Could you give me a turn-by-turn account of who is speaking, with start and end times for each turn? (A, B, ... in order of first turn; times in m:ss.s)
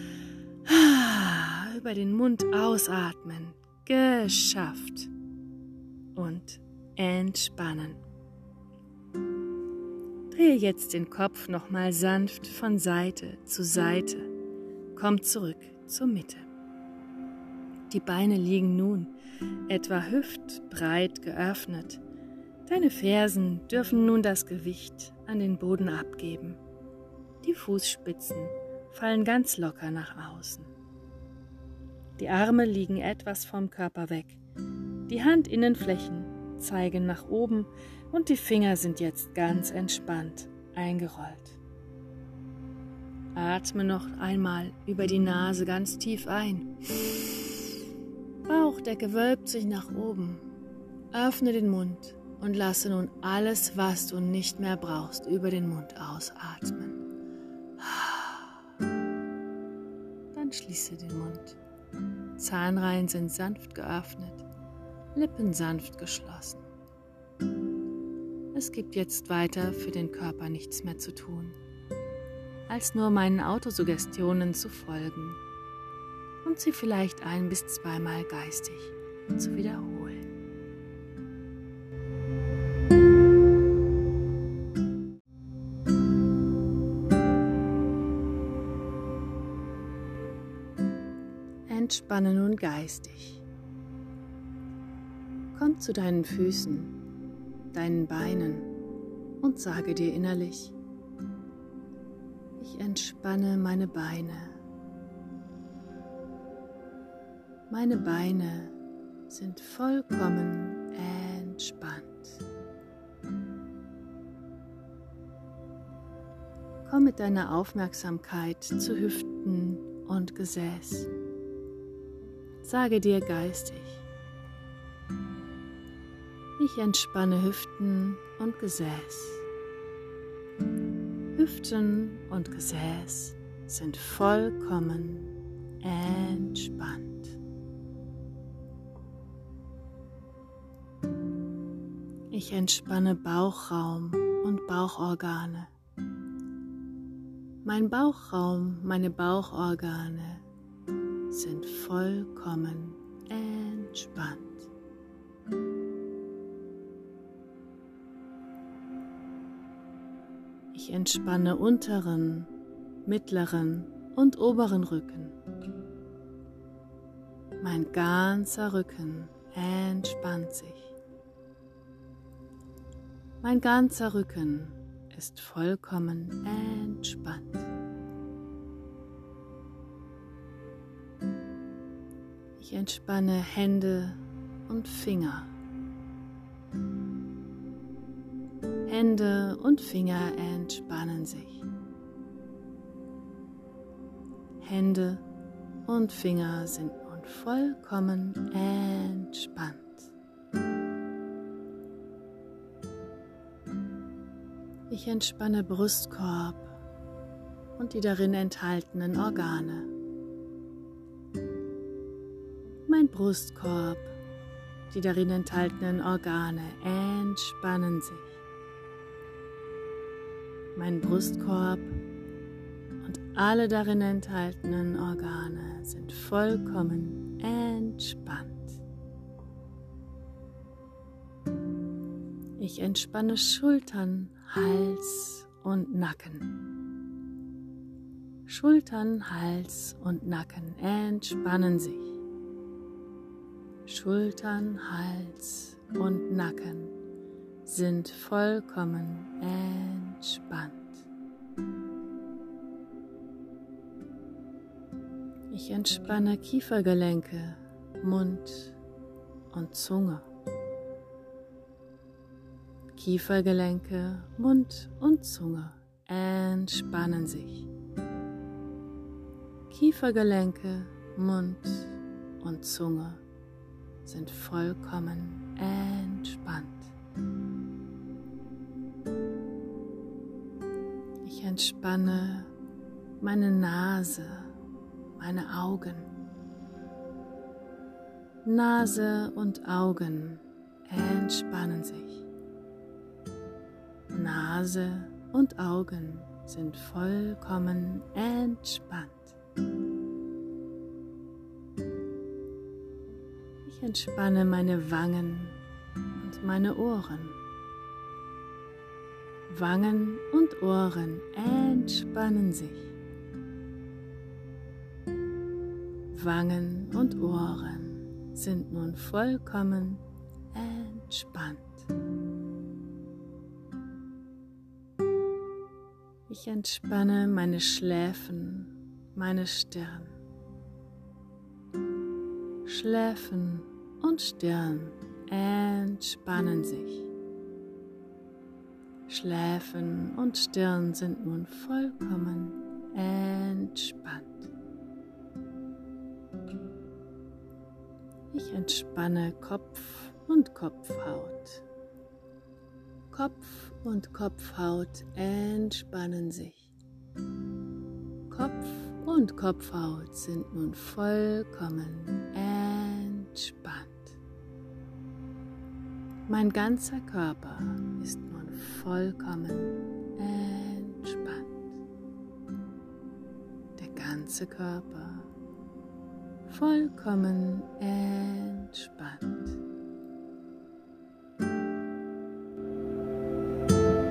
0:00.6-0:05.1 A
0:06.2-0:08.0 A
0:10.3-0:14.3 A
0:14.9-0:16.5 A
0:17.9-0:19.1 A
0:19.7-0:22.0 A
0:22.7-0:26.6 A
0:27.4-0:30.7 A
0:32.2-0:34.4 A
0:35.1-0:41.6 A
0:43.4-0:47.4 A
0:48.5-0:50.5 A
0:51.1-0:57.0 A
0:57.8-0:58.6 A
1:00.3-1:01.6 A
1:02.4-1:04.4 A
1:05.2-1:06.6 A
1:08.5-1:11.6 A
1:12.7-1:15.4 A
1:16.4-1:20.3 A
1:31.7-1:33.4 A
1:35.5-1:36.9 A
1:37.7-1:38.7 A
1:39.4-1:40.8 A
1:42.6-1:44.6 A
1:47.7-1:48.8 A
1:49.3-1:52.4 A
1:56.8-2:01.1 A
2:02.6-2:04.1 A
2:06.6-2:09.4 A
2:11.4-2:17.4 A
2:22.3-2:25.7 A
2:27.6-2:30.4 A
2:31.3-2:34.7 A
2:40.7-2:42.5 A
2:43.0-2:45.4 A
2:47.6-2:51.0 A
2:53.4-2:57.7 A
3:02.6-3:05.5 A
3:08.9-3:11.7 A
3:14.6-3:15.2 A
3:15.9-3:20.1 A
3:24.9-3:26.8 A
3:27.8-3:29.9 A
3:32.9-3:34.1 A
3:34.9-3:38.4 A
3:40.8-3:42.0 A
3:43.0-3:48.8 A
3:52.6-3:56.5 A
3:58.5-4:02.2 A
4:03.9-4:06.9 A
4:07.6-4:11.0 A
4:15.5-4:18.8 A
4:19.5-4:20.3 A
4:23.0-4:27.7 A
4:29.7-4:33.2 A
4:34.0-4:36.9 A
4:41.2-4:42.5 A
4:43.2-4:44.5 A
4:45.2-4:46.1 A
4:48.4-4:52.3 A
4:54.1-4:59.4 A
5:03.6-5:05.6 A
5:06.1-5:07.4 A
5:09.5-5:12.9 A
5:16.1-5:20.0 A
5:20.5-5:21.9 A
5:26.3-5:30.2 A
5:32.6-5:37.1 A
5:39.1-5:44.5 A
5:48.3-5:51.6 A
5:53.1-5:56.7 A
5:58.3-6:04.2 A
6:06.3-6:11.7 A
6:13.8-6:15.3 A
6:16.5-6:19.6 A